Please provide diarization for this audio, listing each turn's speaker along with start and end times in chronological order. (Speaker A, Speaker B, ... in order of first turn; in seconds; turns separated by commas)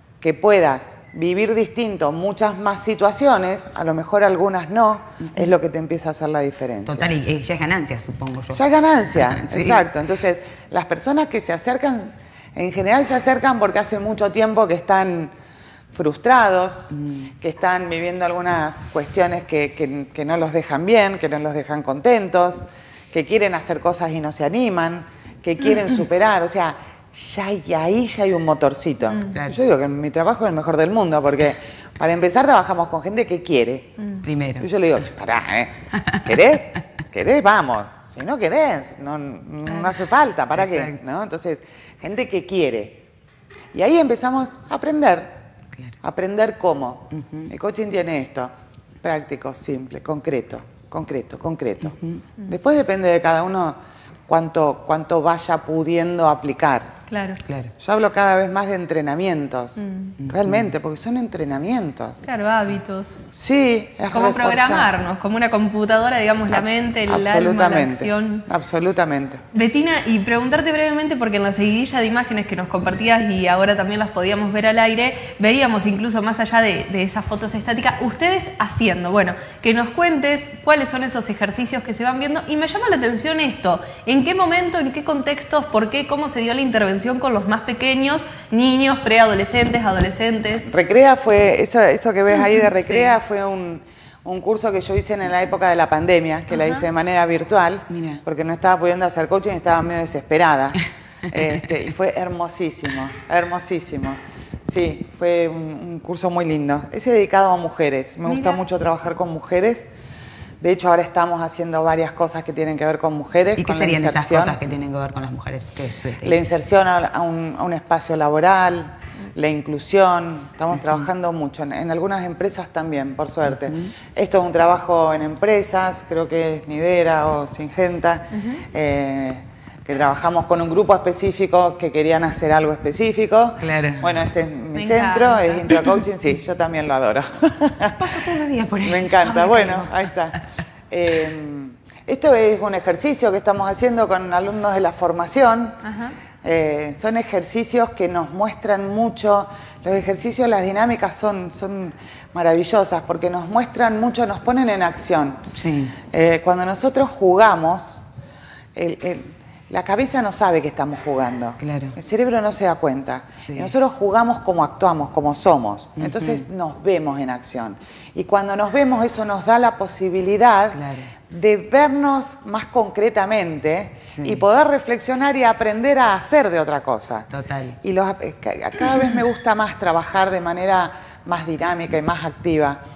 Speaker A: 0.2-7.1, Speaker B: 6.9-8.6, Speaker A: 8.5-15.3, Speaker B: 9.2-9.8, Speaker A: 15.9-34.0, Speaker B: 16.9-17.3, Speaker B: 34.2-34.7, Speaker A: 34.6-43.0, Speaker B: 35.9-36.3, Speaker B: 40.5-41.0, Speaker A: 43.7-45.4, Speaker A: 46.0-48.5, Speaker B: 47.1-47.5, Speaker A: 49.0-56.9, Speaker C: 57.1-57.4, Speaker B: 57.4-57.7, Speaker A: 57.8-62.2, Speaker C: 59.8-60.1, Speaker C: 62.3-63.3, Speaker A: 63.4-64.9, Speaker C: 64.1-68.5, Speaker A: 66.5-69.4, Speaker C: 69.5-90.7, Speaker A: 90.7-109.9, Speaker B: 97.9-98.2, Speaker A: 110.6-114.6, Speaker B: 113.6-116.4, Speaker A: 116.2-138.3, Speaker B: 123.6-123.9, Speaker B: 133.6-134.1, Speaker C: 134.7-135.8, Speaker B: 138.0-140.1, Speaker A: 138.8-140.4, Speaker A: 140.9-145.8, Speaker C: 145.8-146.1, Speaker A: 146.4-155.4, Speaker B: 155.5-155.9, Speaker A: 156.1-158.0, Speaker A: 158.7-177.3, Speaker B: 161.6-161.9, Speaker B: 163.4-163.7, Speaker B: 166.0-166.4, Speaker B: 170.7-171.1, Speaker B: 174.1-174.4, Speaker B: 177.3-177.8, Speaker A: 177.8-182.8